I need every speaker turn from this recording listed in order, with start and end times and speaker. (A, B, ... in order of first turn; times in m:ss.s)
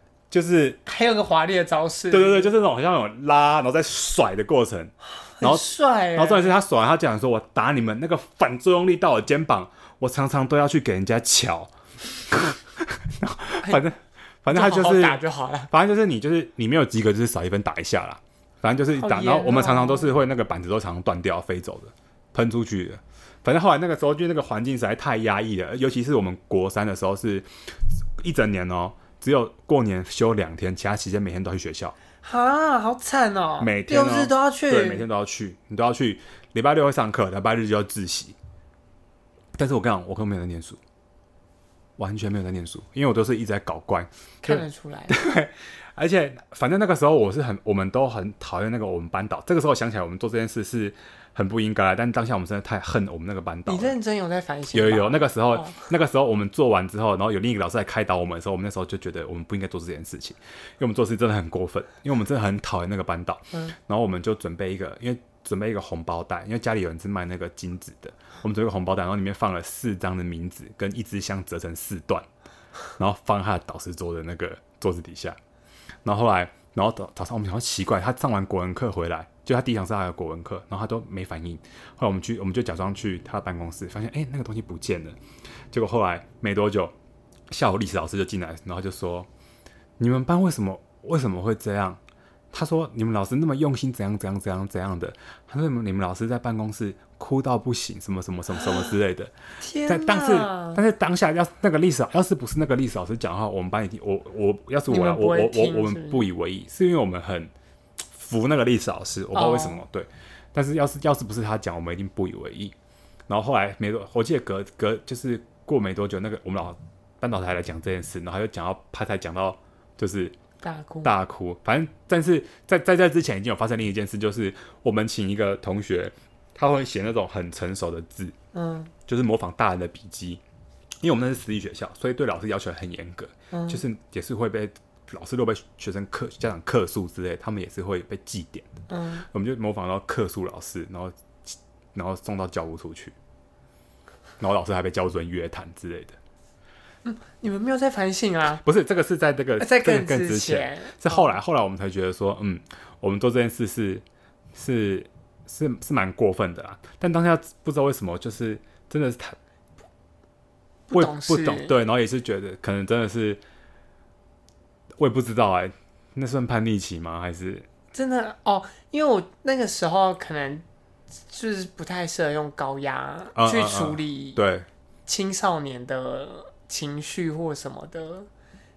0:00.3-0:00.8 A
0:00.8-0:02.5 B
0:02.1-0:27.5 A
0:05.4-0:06.6 B
0:14.5-0:15.7 B
0:18.9-0:20.1 B
0:28.2-0:31.9 A
0:32.2-0:35.0 B
0:33.6-0:38.4 A
0:39.6-0:40.8 A
0:42.0-0:53.9 A
0:44.4-0:45.2 B
0:53.7-0:55.9 B
0:54.7-1:12.2 A
1:13.0-1:15.4 A
1:16.0-1:25.2 A
1:25.7-1:26.9 A
1:27.5-1:29.3 A
1:30.0-1:32.0 A
1:32.5-1:39.3 A
1:39.6-1:40.8 B
1:39.8-1:47.5 A
1:44.9-1:46.2 B
1:48.1-1:52.7 A
1:49.3-1:49.8 B
1:53.3-2:00.3 A
2:00.6-2:01.1 B
2:01.0-2:08.3 A
2:08.5-2:08.9 B
2:09.1-2:10.4 A
2:11.0-2:18.7 A
2:13.5-2:13.8 B
2:18.9-2:19.2 B
2:19.3-2:21.1 A
2:21.9-2:23.1 A
2:24.4-2:26.2 A
2:27.0-2:28.6 B
2:28.6-2:39.4 A
2:29.6-2:31.3 B
2:40.9-2:41.7 B
2:40.9-2:43.4 A
2:45.0-2:47.7 A
2:47.9-2:50.6 B
2:51.3-2:54.4 B
2:53.4-2:54.7 A
2:55.1-2:58.3 B